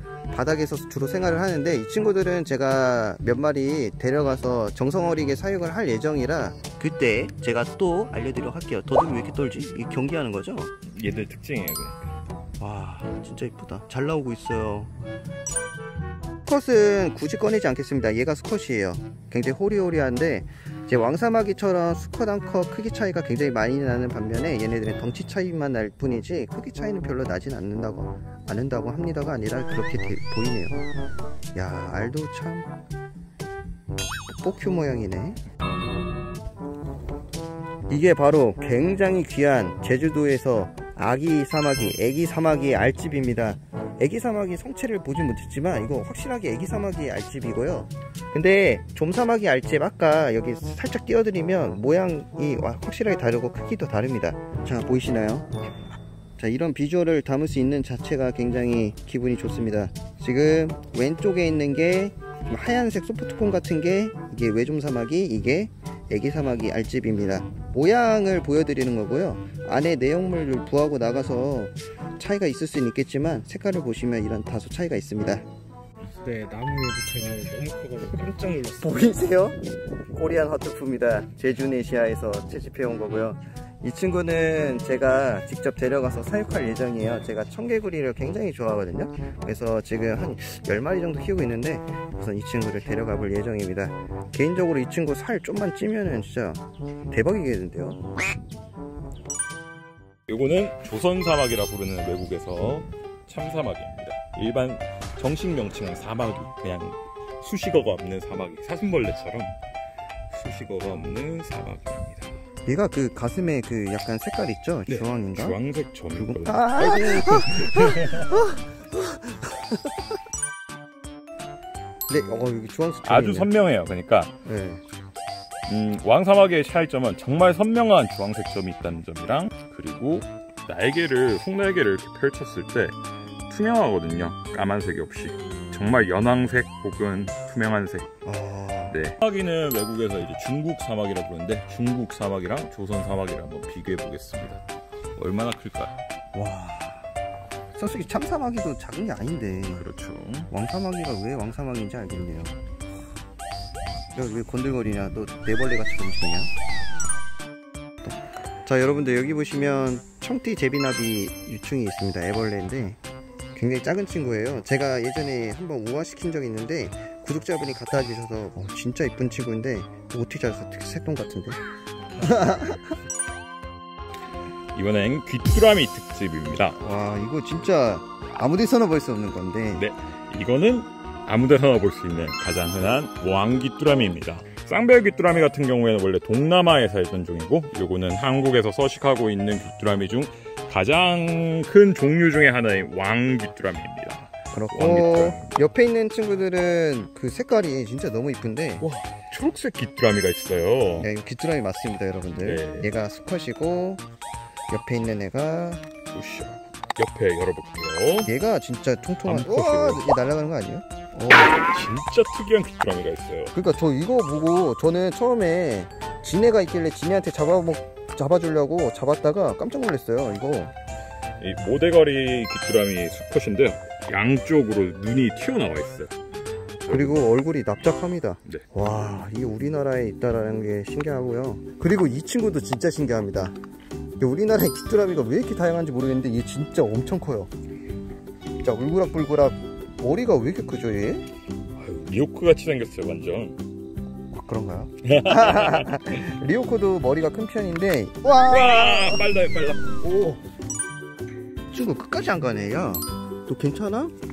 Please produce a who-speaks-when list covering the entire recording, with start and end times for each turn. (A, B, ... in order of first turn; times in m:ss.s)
0:00.3-0:10.7 A
0:10.8-0:12.1 B
0:12.6-0:14.9 A
0:16.5-0:30.9 A
0:31.5-0:32.7 A
0:34.3-0:35.4 A
0:37.9-0:55.5 A
0:56.4-1:15.4 A
1:16.2-1:19.1 C
1:18.8-1:38.0 A
1:40.3-1:49.6 B
1:50.3-1:52.4 B
1:52.7-1:55.6 A
1:54.9-1:58.4 B
1:56.1-1:59.8 A
2:02.1-2:03.5 A
2:03.0-2:04.4 B
2:04.4-2:04.8 A
2:05.7-2:13.0 B
2:13.5-2:18.1 B
2:18.2-2:19.0 A
2:18.9-2:24.6 B
2:25.2-2:26.0 B
2:26.3-2:27.1 A
2:27.8-2:29.9 A
2:29.7-2:30.5 B
2:30.5-2:32.6 A
2:34.1-2:36.5 A
2:38.0-2:43.0 A
2:43.6-2:51.6 A
2:52.2-2:52.9 A
2:54.7-2:56.8 B
2:56.8-2:59.8 A
2:59.8-3:15.6 B
3:14.5-3:18.9 A
3:18.8-3:21.1 B
3:21.0-3:24.0 A
3:22.4-3:22.9 B
3:24.7-3:25.8 A
3:26.1-3:28.3 B
3:28.2-3:31.6 A
3:29.2-3:30.1 B
3:31.4-3:33.5 B
3:33.5-3:40.7 A
3:41.4-3:46.2 B
3:46.9-3:47.2 B
3:46.9-3:53.6 A
3:54.2-3:57.5 A
3:58.6-4:01.3 A
4:01.8-4:03.6 B
4:04.3-4:09.3 A
4:05.0-4:06.1 B
4:08.4-4:09.9 B
4:10.0-4:10.4 A
4:11.7-4:14.1 A